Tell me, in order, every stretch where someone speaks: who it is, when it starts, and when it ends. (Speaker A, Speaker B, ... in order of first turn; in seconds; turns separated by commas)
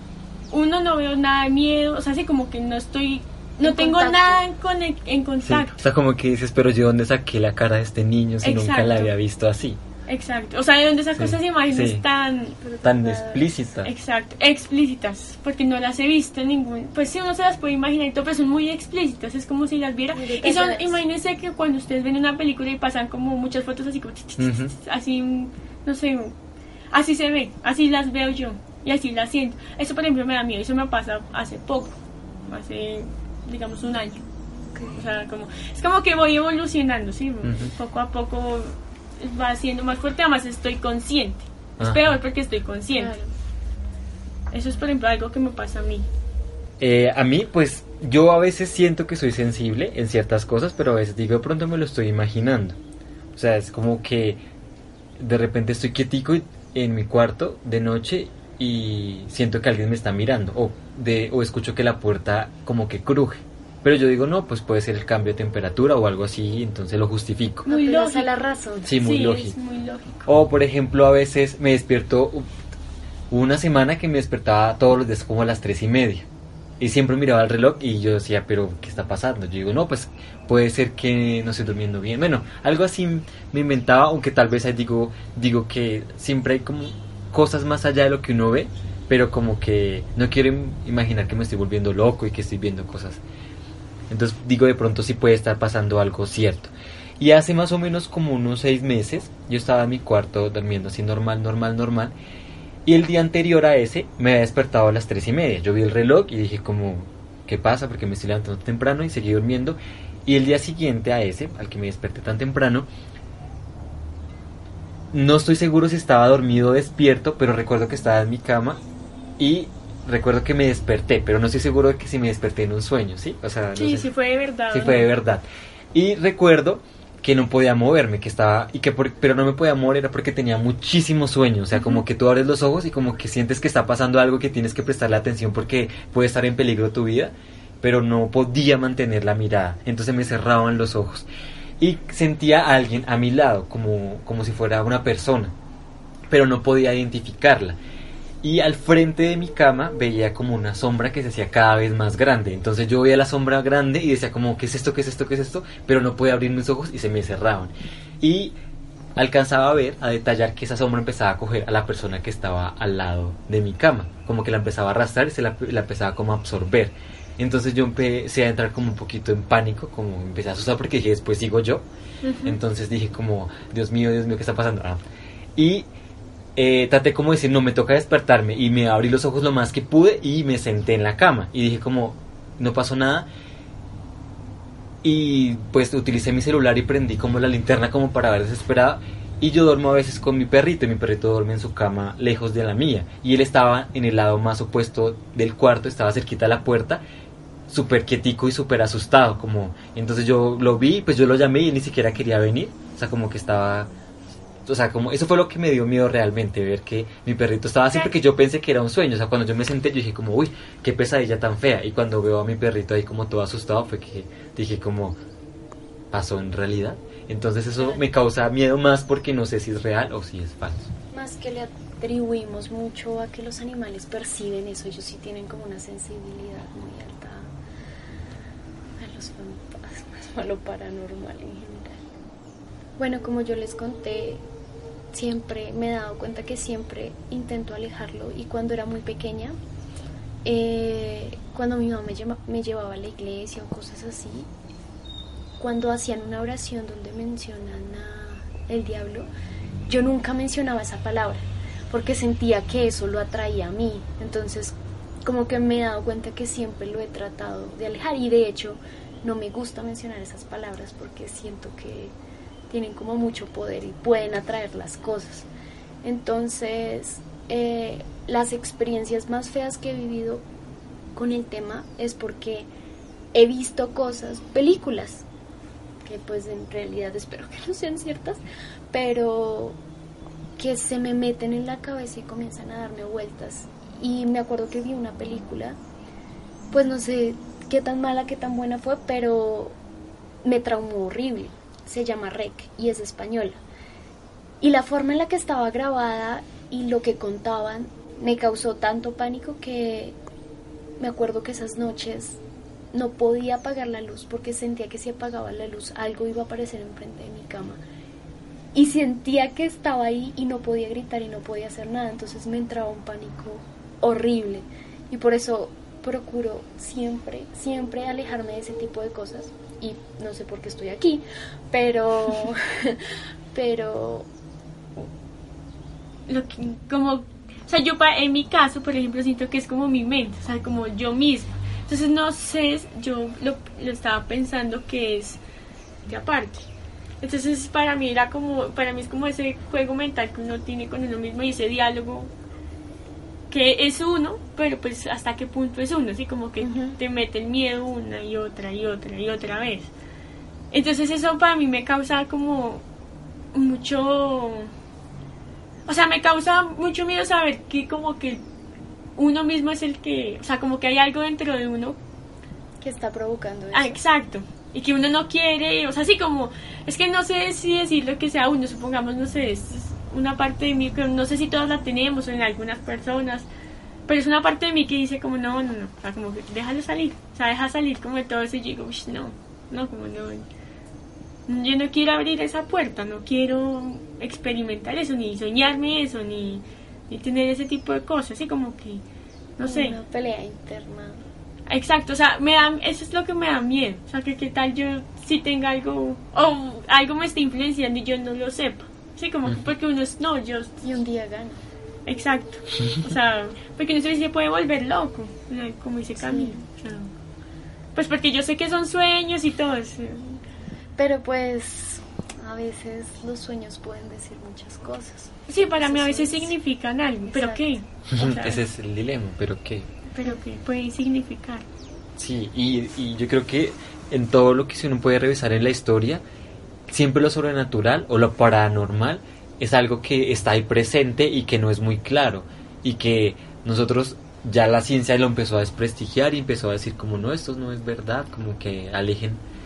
Speaker A: 0.5-5.8, Speaker B: 3.6-4.4, Speaker C: 5.4-9.8, Speaker A: 8.4-9.1, Speaker A: 10.1-12.6, Speaker C: 11.2-12.0, Speaker B: 12.6-13.4, Speaker C: 12.8-13.9, Speaker A: 13.8-26.3, Speaker B: 20.1-21.0, Speaker C: 24.4-24.7, Speaker A: 26.9-34.2, Speaker B: 34.7-35.1, Speaker A: 34.9-43.2, Speaker C: 37.4-37.7, Speaker C: 41.8-42.2, Speaker B: 42.9-43.2, Speaker A: 44.5-46.1, Speaker C: 46.8-52.8, Speaker C: 53.3-54.4, Speaker C: 55.2-67.7, Speaker A: 67.7-68.3, Speaker B: 67.7-69.0, Speaker C: 68.8-69.5, Speaker A: 69.0-70.3, Speaker C: 70.2-72.5, Speaker C: 73.3-76.2, Speaker C: 76.8-93.2, Speaker C: 94.1-102.1, Speaker C: 102.8-112.9, Speaker C: 115.1-118.8, Speaker C: 119.4-124.1, Speaker A: 123.7-125.1, Speaker C: 124.7-141.3, Speaker C: 141.8-145.5, Speaker C: 146.3-147.8, Speaker C: 148.4-158.5, Speaker C: 159.2-171.8, Speaker A: 172.2-172.6, Speaker C: 172.4-175.0, Speaker C: 175.6-175.9, Speaker C: 176.6-183.3, Speaker C: 185.0-197.0, Speaker C: 197.7-203.9, Speaker C: 204.7-215.2, Speaker C: 216.1-220.9, Speaker B: 221.1-227.5, Speaker B: 229.0-232.0, Speaker B: 233.0-234.4, Speaker B: 235.1-239.6, Speaker B: 240.4-244.5, Speaker B: 245.6-249.3, Speaker B: 249.8-262.1, Speaker B: 262.7-265.5, Speaker B: 266.0-270.4, Speaker B: 271.1-272.7, Speaker B: 273.3-275.2, Speaker B: 276.0-279.8, Speaker B: 280.6-285.8, Speaker B: 286.7-289.7, Speaker B: 290.4-293.6, Speaker B: 294.6-300.1, Speaker B: 301.0-302.4, Speaker B: 302.9-307.8, Speaker B: 308.7-323.0, Speaker B: 323.5-324.3, Speaker A: 326.3-335.4, Speaker A: 336.1-336.6, Speaker A: 337.2-342.3, Speaker A: 343.5-349.9, Speaker B: 346.6-347.0, Speaker A: 350.7-352.8, Speaker A: 353.5-354.7, Speaker A: 355.9-358.4, Speaker A: 359.1-362.0, Speaker B: 362.8-364.0, Speaker A: 363.7-373.5, Speaker A: 374.1-380.5, Speaker A: 381.5-389.0, Speaker A: 389.6-389.9, Speaker B: 389.6-391.2, Speaker A: 391.7-400.8, Speaker B: 400.8-401.6, Speaker A: 402.1-407.1, Speaker B: 406.2-406.6, Speaker A: 407.9-410.4, Speaker B: 410.9-416.5, Speaker A: 415.5-418.6, Speaker B: 417.2-417.7, Speaker C: 418.1-419.9, Speaker A: 420.1-421.6, Speaker C: 422.2-426.2, Speaker C: 426.9-439.4